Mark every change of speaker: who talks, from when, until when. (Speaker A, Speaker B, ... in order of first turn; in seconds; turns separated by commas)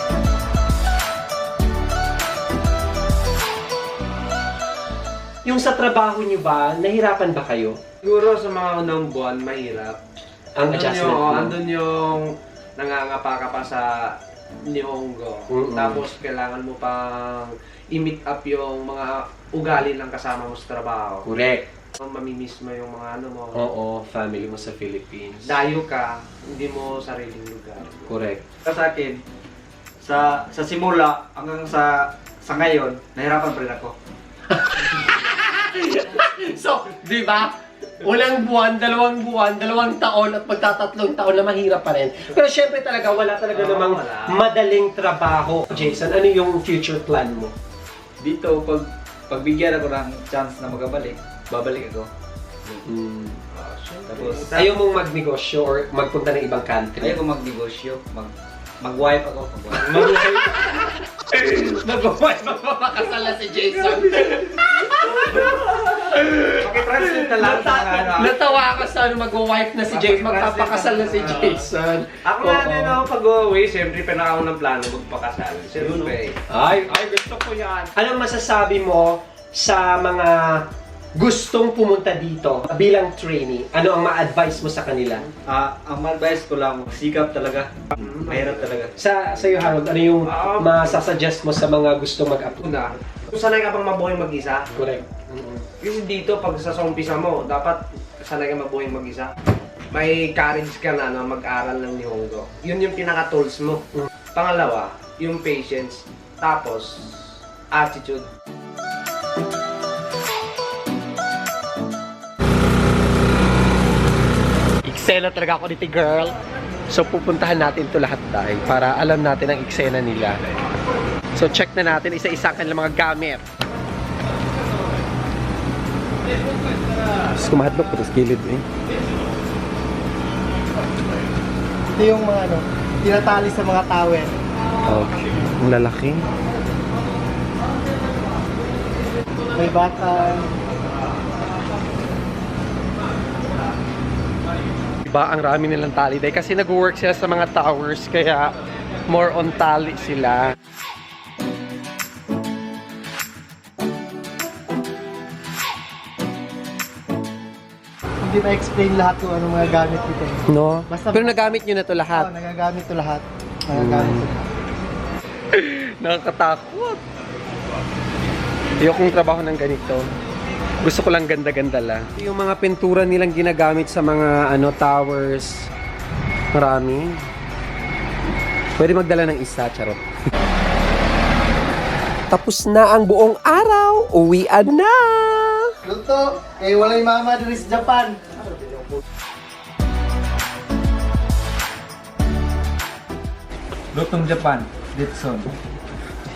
Speaker A: 5.5-7.8, Speaker B: 8.0-10.0, Speaker A: 10.6-11.6, Speaker B: 10.7-21.3, Speaker A: 15.5-16.0, Speaker A: 21.2-21.7, Speaker B: 22.0-23.7, Speaker A: 23.5-25.6, Speaker B: 25.4-28.1, Speaker A: 28.1-28.4, Speaker C: 28.6-29.2, Speaker C: 30.0-33.9, Speaker A: 34.5-47.5, Speaker B: 43.5-44.4, Speaker C: 48.2-52.1, Speaker A: 52.8-53.4, Speaker B: 53.5-54.7, Speaker C: 54.1-54.6, Speaker A: 54.5-57.2, Speaker C: 57.0-60.2, Speaker A: 59.8-73.0, Speaker C: 66.2-68.4, Speaker C: 70.1-71.3, Speaker B: 71.1-71.6, Speaker B: 72.2-76.4, Speaker C: 75.8-76.2, Speaker A: 76.5-85.3, Speaker B: 77.4-77.8, Speaker C: 85.5-88.9, Speaker B: 88.0-88.7, Speaker A: 89.0-92.6, Speaker B: 90.3-91.1, Speaker B: 92.5-94.7, Speaker A: 94.7-95.7, Speaker B: 95.8-99.3, Speaker B: 99.9-108.3, Speaker A: 114.8-116.3, Speaker A: 116.9-120.4, Speaker A: 121.4-123.4, Speaker A: 127.3-128.6, Speaker D: 131.9-134.3, Speaker A: 134.8-136.2, Speaker D: 139.6-140.5, Speaker A: 145.1-148.5, Speaker A: 149.1-150.5, Speaker D: 158.2-161.4, Speaker A: 160.5-162.3, Speaker D: 162.2-164.5, Speaker A: 163.7-164.3, Speaker A: 165.5-167.0, Speaker A: 168.8-170.0, Speaker A: 170.8-175.7, Speaker A: 176.5-177.2, Speaker A: 178.8-180.0, Speaker A: 182.3-185.7, Speaker D: 185.8-188.2, Speaker C: 193.9-195.5